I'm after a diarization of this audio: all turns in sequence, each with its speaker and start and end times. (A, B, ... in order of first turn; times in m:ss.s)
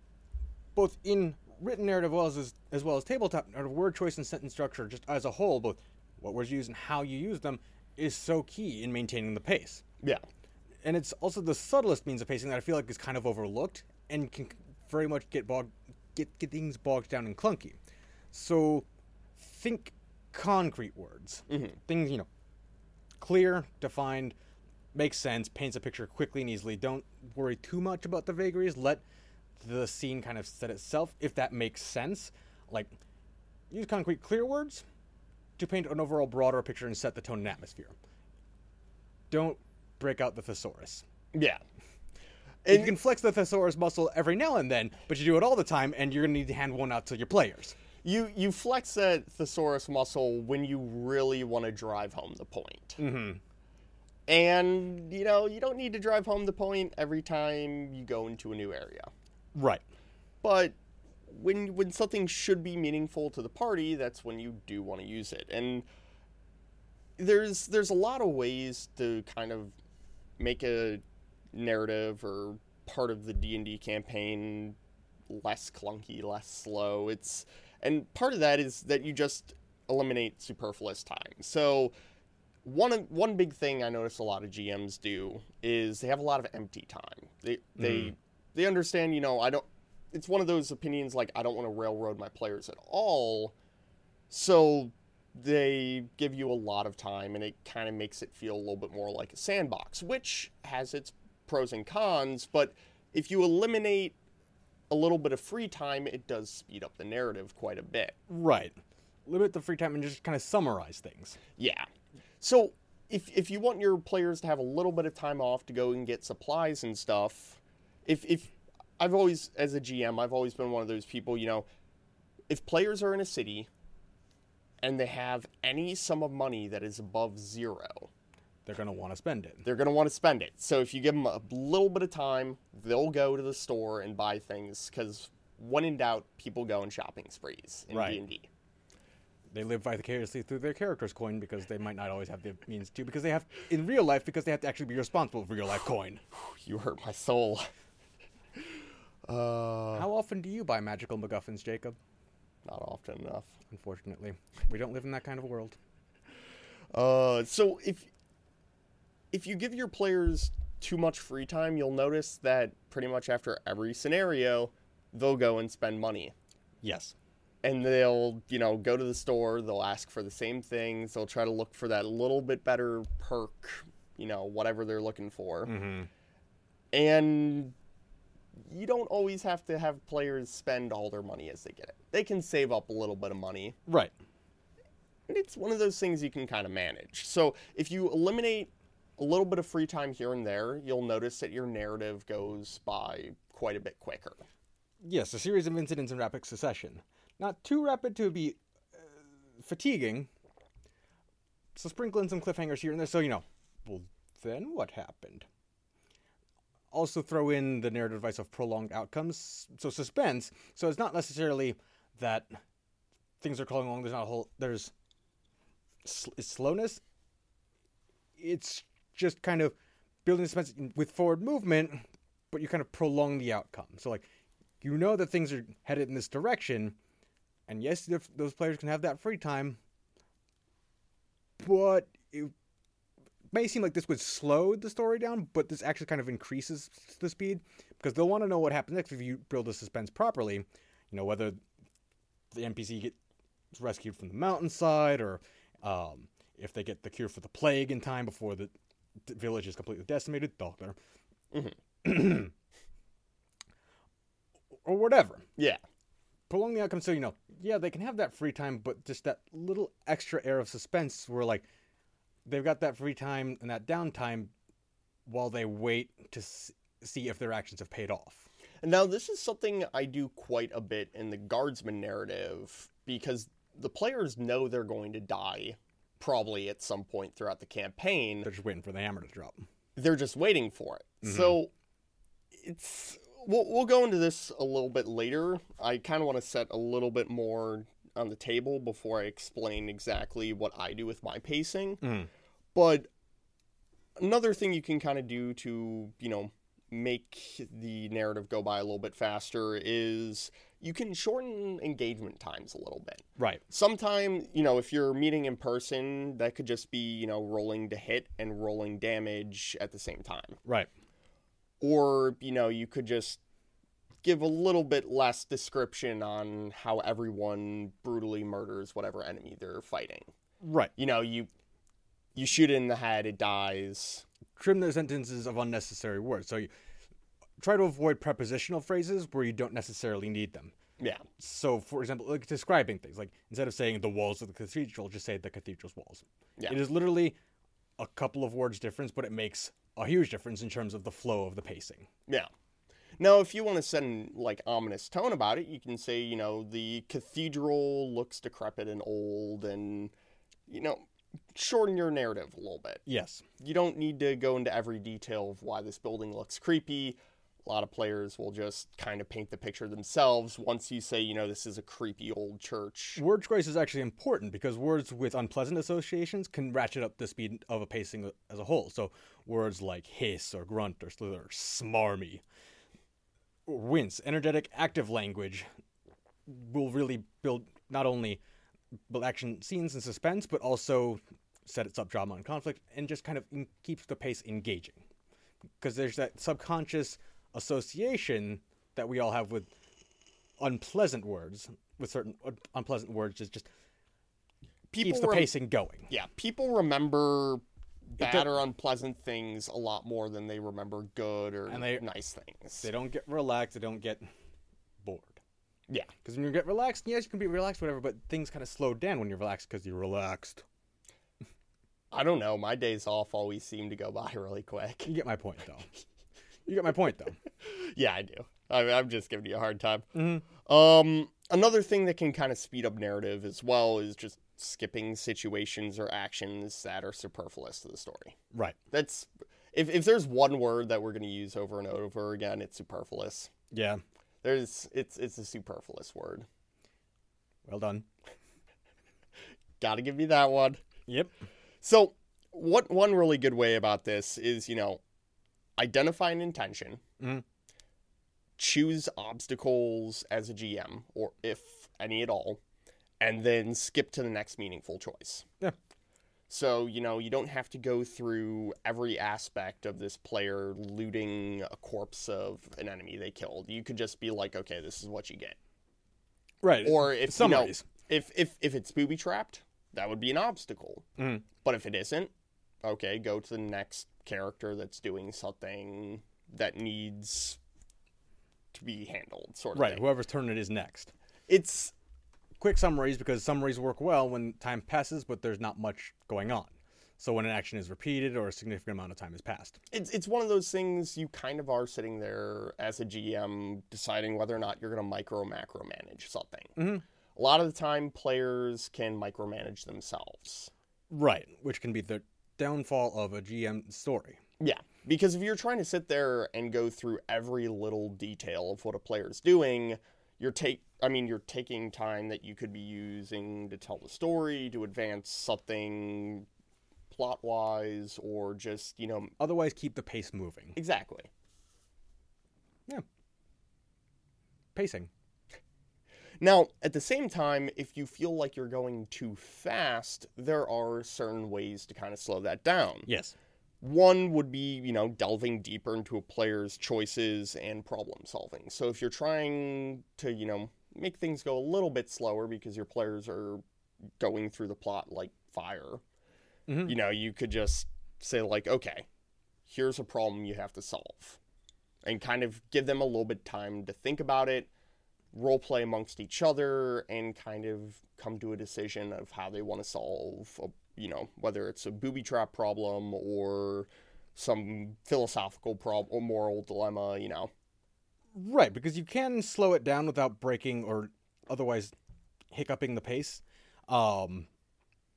0:00.8-0:09.8 A
0:10.8-0:17.8 A
0:18.3-0:18.8 A
0:19.4-0:22.3 A
0:21.5-0:21.8 B
0:23.2-0:24.3 A
0:24.9-0:29.0 A
0:29.6-0:32.9 A
0:33.7-0:34.8 A
0:35.6-0:38.0 A
0:39.3-0:41.0 A
0:41.3-0:41.6 B
0:42.6-0:42.9 B
0:42.7-0:47.8 A
0:48.0-0:53.0 B
0:53.0-0:53.4 A
0:54.3-0:59.1 B
0:59.6-0:59.8 A
1:00.4-1:00.8 B
1:01.3-1:05.9 B
1:07.2-1:09.8 B
1:10.4-1:11.0 B
1:11.5-1:14.8 B
1:15.3-1:21.9 B
1:22.6-1:33.5 B
1:27.8-1:28.1 A
1:34.3-1:44.2 B
1:44.9-1:48.2 B
1:48.3-1:48.8 A
1:49.3-1:51.4 A
1:51.6-1:51.9 B
1:52.4-2:01.7 B
2:02.5-2:03.7 B
2:04.8-2:08.1 B
2:08.7-2:09.6 A
2:09.6-2:18.5 B
2:17.9-2:18.2 A
2:19.5-2:26.2 A
2:26.3-2:27.7 B
2:29.2-2:30.1 B
2:30.0-2:32.0 A
2:32.7-2:33.6 B
2:33.7-2:35.8 A
2:36.9-2:38.1 B
2:39.3-2:46.3 B
2:46.8-2:47.2 A
2:47.6-2:55.7 B
2:55.7-2:56.1 A
2:56.9-2:57.8 B
2:58.6-3:03.8 B
3:03.9-3:04.1 A
3:05.3-3:14.4 B
3:15.0-3:20.3 A
3:21.8-3:25.5 A
3:26.9-3:32.6 A
3:33.4-3:34.9 A
3:36.0-3:37.0 A
3:38.4-3:44.3 A
3:44.8-3:47.0 A
3:47.7-3:49.8 A
3:51.6-3:52.5 A
3:53.5-4:01.6 A
4:02.5-4:03.2 A
4:03.7-4:08.7 A
4:09.3-4:11.0 A
4:12.0-4:12.5 A
4:14.8-4:15.4 A
4:16.5-4:21.6 A
4:22.5-4:24.5 A
4:25.3-4:28.5 A
4:28.8-4:38.5 B
4:38.4-4:39.6 A
4:40.0-4:41.7 B
4:41.2-4:41.6 A
4:42.5-4:52.0 B
4:52.0-4:52.3 A
4:52.7-4:53.1 B
4:54.2-5:10.6 B
5:11.8-5:13.4 B
5:14.2-5:20.3 B
5:20.6-5:20.9 A
5:21.0-5:21.5 B
5:22.4-5:24.2 B
5:24.6-5:26.7 A
5:27.6-5:30.7 A
5:31.0-5:31.2 B
5:31.4-5:37.4 A
5:38.0-5:42.1 A
5:43.2-5:50.1 B
5:50.7-5:51.0 B
5:51.5-5:53.0 B
5:53.1-5:53.4 A
5:53.6-6:03.2 B
6:03.2-6:12.4 A
6:13.7-6:15.7 A
6:16.5-6:18.4 A
6:19.1-6:25.0 A
6:25.8-6:29.7 A
6:30.6-6:33.7 A
6:34.9-6:35.5 B
6:35.0-6:36.1 A
6:36.1-6:42.8 B
6:38.2-6:38.5 A
6:41.7-6:42.0 A
6:42.8-6:44.3 A
6:45.0-6:45.4 A
6:46.2-6:50.6 A
6:52.1-6:55.1 B
6:55.1-6:55.9 A
6:56.7-6:57.4 A
6:57.6-7:08.4 B
7:00.2-7:00.4 A
7:08.9-7:13.5 B
7:13.7-7:14.0 A
7:14.4-7:16.5 B
7:17.7-7:18.1 A
7:19.8-7:20.8 B
7:21.1-7:21.3 A
7:21.8-7:25.0 B
7:25.8-7:27.0 B
7:28.6-7:32.6 B
7:33.2-7:35.5 B
7:36.5-7:45.6 B
7:46.6-7:47.9 A
7:46.8-7:51.1 B
7:51.2-7:51.4 A
7:51.6-7:52.3 B
7:52.8-7:57.6 B
7:58.7-8:00.0 B
7:59.7-8:01.1 A
8:01.5-8:01.9 B
8:02.6-8:09.8 A
8:09.9-8:16.8 B
8:16.8-8:17.0 A
8:17.4-8:20.7 B
8:21.1-8:24.4 A
8:24.6-8:36.5 B
8:37.1-8:39.3 B
8:39.4-8:40.8 A
8:40.8-8:41.3 B
8:44.8-8:45.1 A
8:46.4-8:53.1 B
8:53.1-8:53.3 A
8:53.8-9:03.6 B
9:04.2-9:06.0 B
9:06.7-9:07.0 A
9:06.8-9:09.1 B
9:09.7-9:11.4 B
9:12.0-9:14.7 B
9:15.3-9:27.5 B
9:28.3-9:31.9 A
9:32.5-9:34.5 A